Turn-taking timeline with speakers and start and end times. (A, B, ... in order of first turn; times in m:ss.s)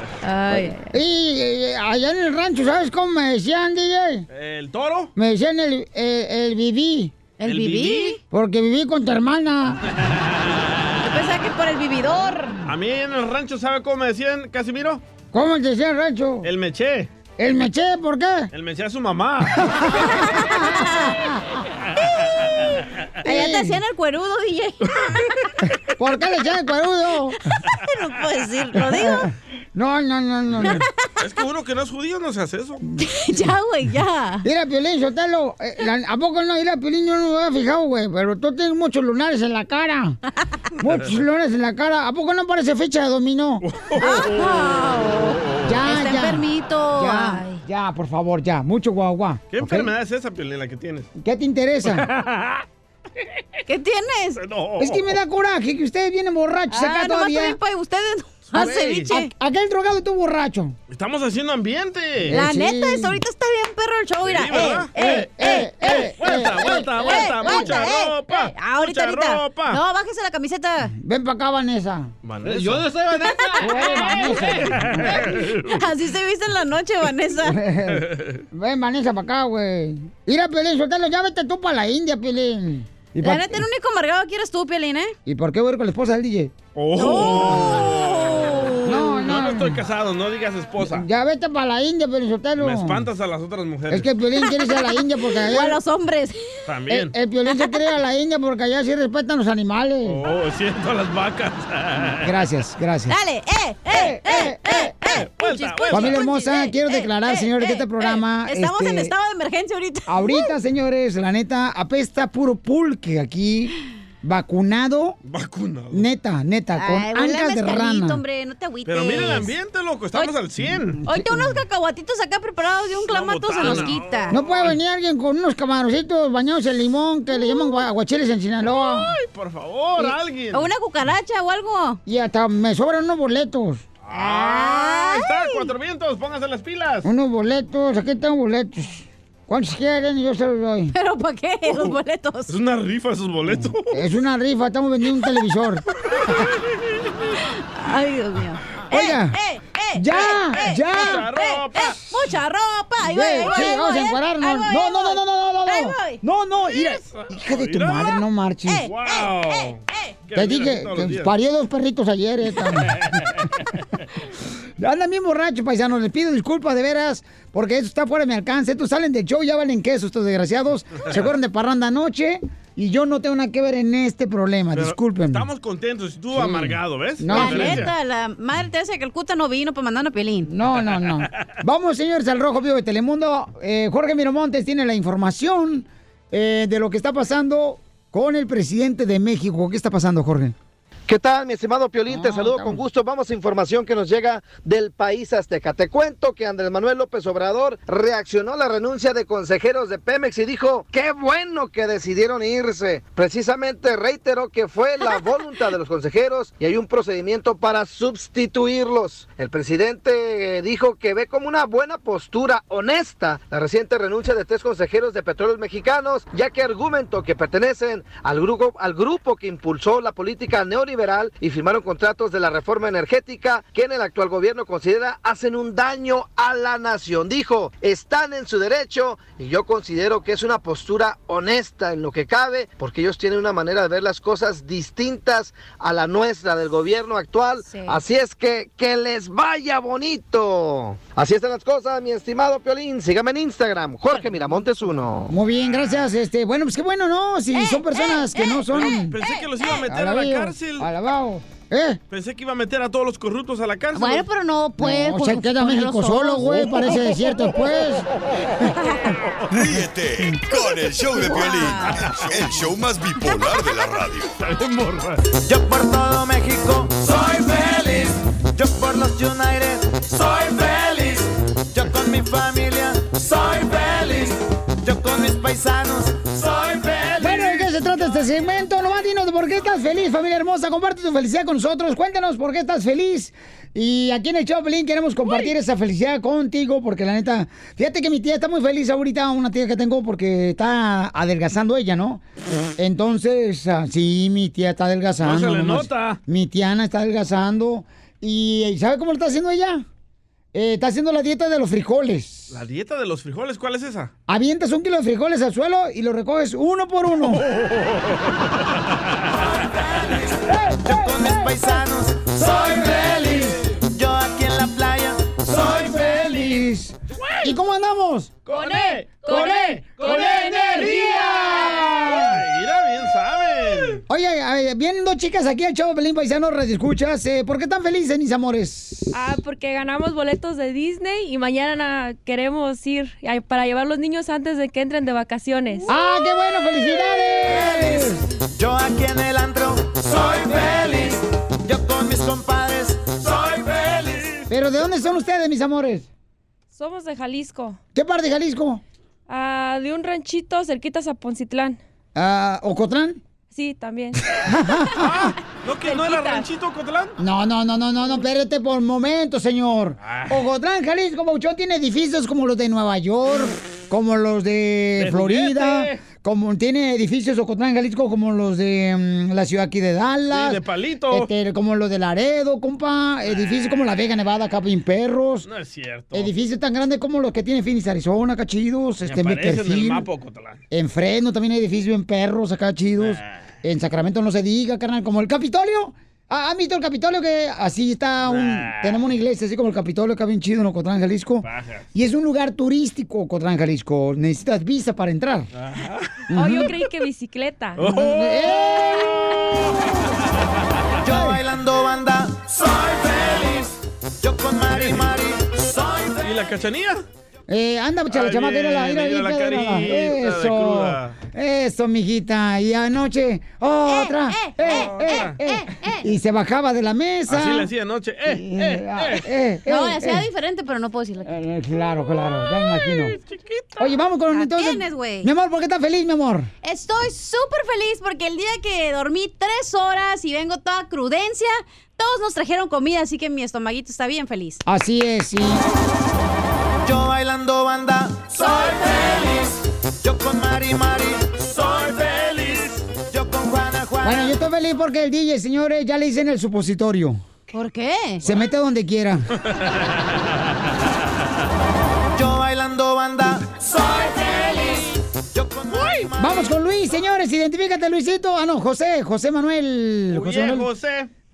0:00.2-0:00.9 A
0:00.5-0:04.3 B
0:04.3-0:05.1 C
0:05.2-0:07.1 B
0:07.4-0:08.2 A
0:07.4-0:08.2 C
0:08.3-0:09.8 B
0:10.1-0:10.4 C
0:11.0-0:12.6 A
0:12.7-0:15.0 C
0:15.3-0:16.5 B
0:16.4-0:17.1 C
0:17.4-0:18.5 B
0:18.5-0:19.6 C
0:19.6-0:20.8 B
0:20.1-0:21.2 A
0:23.2-0:23.8 B
0:23.2-0:25.3 A
0:26.0-0:27.4 B
0:27.5-0:29.3 A
0:28.8-0:30.9 B
0:31.2-0:32.8 C
0:33.0-0:34.5 A
0:34.4-0:40.2 B
0:40.8-0:43.6 B
0:43.6-0:45.7 C
0:44.0-0:47.6 A
0:45.6-0:49.9 B
0:49.5-0:51.1 C
0:51.2-0:52.1 B
0:51.9-0:52.6 C
0:53.7-0:54.4 A
0:54.4-0:55.1 C
0:54.8-0:57.6 B
0:56.7-0:59.3 A
0:58.6-0:59.1 C
0:58.6-1:00.8 B
1:00.9-1:02.4 C
1:02.3-1:03.2 B
1:02.3-1:06.1 A
1:04.2-1:04.9 C
1:04.9-1:07.8 B
1:05.8-1:09.8 C
1:07.0-1:10.9 A
1:11.0-1:12.1 B
1:12.2-1:13.0 C
1:13.1-1:17.6 A
1:13.6-1:15.2 B
1:14.6-1:15.8 C
1:17.5-1:23.6 B
1:18.0-1:18.4 C
1:23.2-1:25.1 A
1:25.3-1:26.5 B
1:26.8-1:31.1 C
1:27.0-1:29.1 A
1:28.8-1:29.8 B
1:30.8-1:33.0 B
1:32.6-1:34.1 C
1:33.9-1:35.8 B
1:34.4-1:36.4 A
1:36.7-1:37.1 C
1:36.9-1:40.2 B
1:40.1-1:42.3 C
1:42.2-1:43.2 B
1:43.1-1:50.5 A
1:43.9-1:44.9 B
1:45.1-1:46.3 C
1:45.9-1:49.1 B
1:50.1-1:55.2 B
1:55.2-1:56.1 C
1:55.9-1:58.2 B
1:56.8-1:59.5 A
1:58.9-2:01.0 C
2:01.0-2:01.6 B
2:01.0-2:04.4 A
2:03.1-2:04.8 C
2:03.6-2:09.1 B
2:08.7-2:10.7 C
2:10.0-2:12.0 A
2:12.1-2:13.8 B
2:14.0-2:17.1 C
2:14.1-2:15.7 A
2:17.0-2:20.9 B
2:20.9-2:22.6 A
2:21.7-2:22.0 C
2:22.5-2:24.0 C
2:23.9-2:25.8 B
2:27.3-2:36.2 A
2:28.9-2:29.4 B
2:30.0-2:31.3 B
2:30.9-2:32.0 C
2:33.0-2:38.9 B
2:37.0-2:38.1 C
2:38.7-2:40.2 A
2:38.9-2:41.3 C
2:40.4-2:43.1 B
2:44.8-2:55.5 B
2:54.7-2:57.9 C
2:56.3-2:57.9 B
2:57.3-3:00.5 A
3:00.5-3:10.6 B
3:11.1-4:05.3 D
3:12.1-3:12.8 B
3:57.6-3:58.0 A
4:05.3-4:09.2 B
4:05.6-4:06.1 C
4:07.5-4:09.8 A
4:08.7-4:10.9 C
4:09.9-4:12.0 B
4:12.1-4:14.3 C
4:13.9-4:16.6 A
4:14.8-4:18.1 B
4:19.5-4:24.3 E
4:21.2-4:22.1 A
4:24.4-4:25.2 C
4:25.5-4:37.4 F
4:37.2-4:52.2 B
4:52.8-4:59.8 B
4:55.2-4:56.2 C
5:00.5-5:02.6 B
5:02.5-5:04.1 C
5:04.3-5:07.4 B
5:07.3-5:08.3 C
5:10.5-5:11.6 B
5:10.8-5:15.9 F
5:15.8-5:18.4 B
5:18.4-5:24.0 C
5:19.3-5:22.4 B
5:24.1-5:29.2 B
5:29.1-5:35.9 G
5:35.9-5:38.3 B
5:38.6-5:44.2 F
5:44.5-5:46.1 B
5:46.7-5:47.8 G
5:48.0-5:48.8 B
5:49.3-5:51.8 G
5:52.2-5:53.2 B
5:53.5-5:54.2 G
5:54.4-5:55.3 B
5:55.0-5:57.2 C
5:57.2-6:15.5 B
6:00.0-6:00.4 C
6:05.0-6:06.0 C
6:10.3-6:11.3 C
6:13.2-6:13.8 C
6:15.4-6:16.3 C
6:16.1-6:20.1 B
6:19.0-6:20.6 C
6:20.7-6:35.5 B
6:23.0-6:23.4 C
6:28.3-6:29.1 C
6:31.4-6:31.9 C
6:35.6-6:36.2 C
6:36.3-6:36.7 B
6:36.3-6:37.9 G
6:37.8-6:39.8 C
6:37.8-6:39.2 B
6:41.0-6:46.2 F
6:41.0-6:41.4 B
6:44.7-6:45.1 C
6:46.2-6:47.0 C
6:47.5-6:57.7 B
6:48.1-6:51.2 C
6:53.8-6:56.1 A
6:54.6-6:55.4 C
6:57.3-6:59.3 C
6:58.3-7:00.3 B
6:59.7-7:01.3 A
7:01.3-7:03.2 B
7:02.7-7:03.9 C
7:03.8-7:06.5 B
7:04.3-7:05.3 A
7:06.6-7:14.6 A
7:14.7-7:15.6 B
7:16.8-7:24.3 F
7:24.0-7:27.2 B
7:27.5-7:28.2 A
7:28.2-7:29.3 B
7:32.1-7:34.6 F
7:35.3-7:36.6 F
7:35.7-7:36.1 C
7:36.2-7:40.7 B
7:40.1-7:41.1 C